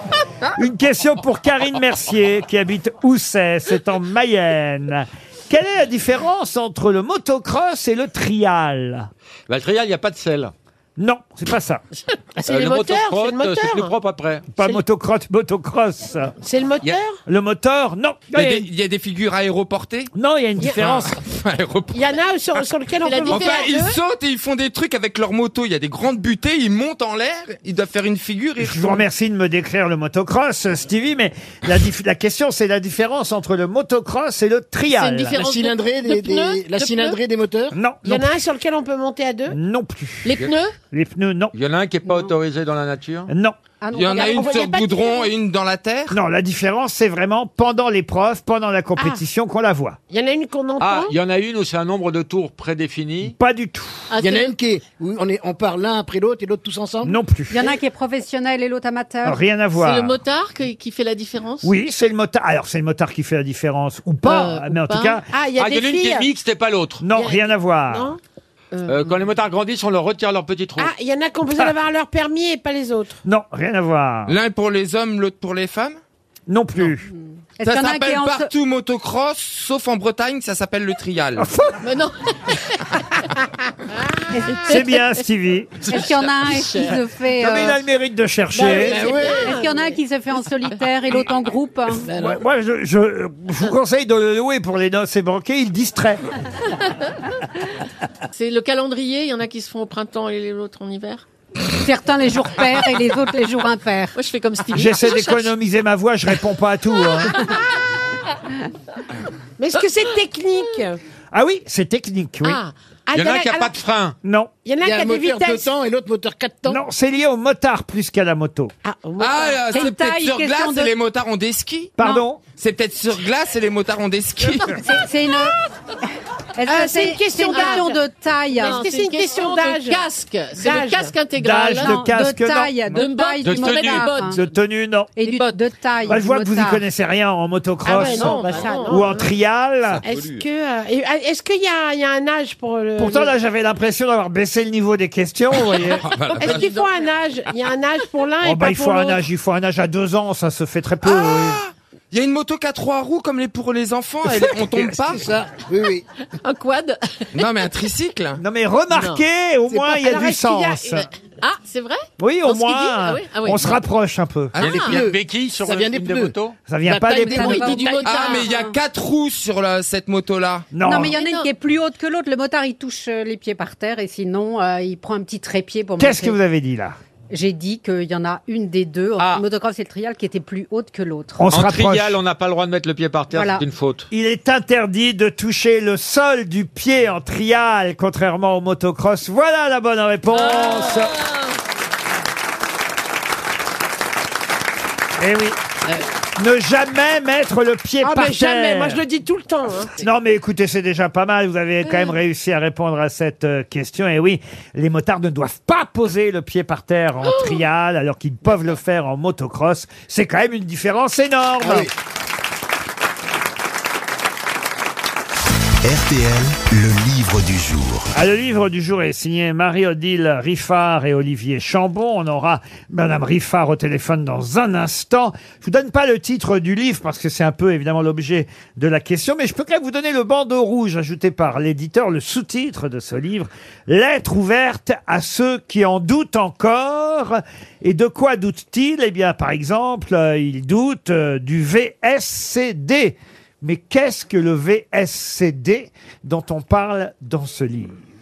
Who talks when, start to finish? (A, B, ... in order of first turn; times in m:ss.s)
0:00.5-0:09.1 A
0:09.5-0:10.5 B
0:11.0-0:11.8 A
0:12.4-0:13.9 C
0:12.4-0:14.5 B
0:14.6-0:16.3 A
0:16.4-0:17.2 C
0:17.2-0:18.7 A
0:18.3-0:20.1 D
0:20.1-0:21.2 A
0:20.7-0:22.6 D
0:21.9-0:24.0 C
0:23.0-0:23.7 E
0:23.2-0:29.0 D
0:28.6-0:35.4 A
0:34.9-0:37.2 E
0:35.3-0:37.8 F
0:37.7-0:38.3 A
0:38.0-0:39.6 C
0:39.5-0:41.5 A
0:40.2-0:40.7 E
0:41.5-0:43.3 B
0:43.3-0:43.6 A
0:43.8-0:44.8 G
0:43.9-0:46.2 D
0:44.2-0:45.2 C
0:46.1-0:50.0 A
0:50.1-0:51.1 C
0:50.8-0:53.3 B
0:53.2-0:54.1 A
0:54.1-0:54.5 E
0:54.2-0:57.2 F
0:57.0-0:57.7 A
0:57.5-0:59.4 G
0:59.2-1:00.2 A
0:59.8-1:01.7 E
1:01.6-1:05.2 A
1:04.2-1:05.2 E
1:05.3-1:06.3 C
1:05.6-1:07.0 B
1:07.0-1:08.1 A
1:07.1-1:08.2 C
1:08.8-1:10.9 B
1:10.8-1:13.2 C
1:13.2-1:14.4 A
1:14.3-1:16.0 D
1:16.5-1:17.1 A
1:17.6-1:18.5 G
1:17.6-1:21.5 D
1:21.4-1:21.8 A
1:21.8-1:23.2 E
1:24.3-1:24.6 G
1:24.5-1:25.0 E
1:24.6-1:26.0 A
1:25.9-1:27.8 G
1:25.9-1:27.0 E
1:27.4-1:29.1 A
1:28.6-1:29.8 E
1:28.6-1:29.6 F
1:28.6-1:32.1 G
1:32.0-1:32.4 F
1:32.1-1:36.2 A
1:38.3-1:41.2 E
1:41.8-1:44.2 G
1:44.1-1:45.5 E
1:44.7-1:47.5 A
1:49.6-1:51.0 C
1:51.3-1:52.6 A
1:52.4-1:53.8 C
1:53.1-1:54.2 B
1:54.2-1:54.5 A
1:54.6-1:55.7 C
1:54.8-1:56.8 F
1:56.6-1:58.7 A
1:58.8-1:59.6 C
1:59.2-2:02.0 D
1:59.7-2:00.9 G
2:02.0-2:02.4 A
2:02.5-2:04.8 D
2:04.7-2:05.6 G
2:06.6-2:08.8 G
2:06.6-2:08.0 C
2:07.5-2:07.9 E
2:08.6-2:10.0 C
2:08.6-2:12.0 E
2:10.6-2:11.1 C
2:11.3-2:13.0 A
2:11.8-2:14.4 G
2:12.9-2:14.4 E
2:13.4-2:14.1 B
2:14.3-2:15.1 A
2:15.2-2:16.8 G
2:15.2-2:15.6 E
2:16.1-2:20.0 A
2:17.8-2:19.3 C
2:17.9-2:19.2 E
2:19.9-2:20.4 D
2:20.0-2:23.3 C
2:23.0-2:26.1 A
2:25.8-2:26.8 D
2:26.4-2:29.2 C
2:26.4-2:27.1 E
2:28.4-2:31.6 A
2:31.0-2:35.3 D
2:34.2-2:35.2 A
2:35.1-2:36.0 F
2:36.4-2:37.4 E
2:37.3-2:38.4 D
2:38.4-2:41.0 A
2:38.9-2:39.2 E
2:39.8-2:41.0 C
2:41.4-2:43.8 E
2:42.2-2:44.6 A
2:44.6-2:44.9 D
2:44.6-2:46.6 B
2:44.6-2:45.0 E
2:44.7-2:48.2 F
2:46.7-2:47.8 A
2:47.2-2:48.8 G
2:47.4-2:48.4 E
2:48.0-2:50.7 D
2:50.7-2:51.1 A
2:50.8-2:56.4 G
2:51.1-2:51.5 E
2:56.0-2:57.0 A
2:57.3-3:01.5 G
2:59.2-2:59.4 B
3:01.4-3:02.2 A
3:01.5-3:04.1 B
3:03.3-3:03.6 G
3:04.1-3:11.2 A
3:10.3-3:11.4 E
3:15.2-3:15.6 A
3:16.4-3:19.0 A
3:18.0-3:20.0 C
3:20.0-3:31.9 A
3:31.6-3:31.9 F
3:35.8-3:38.1 H
3:38.1-4:08.0 A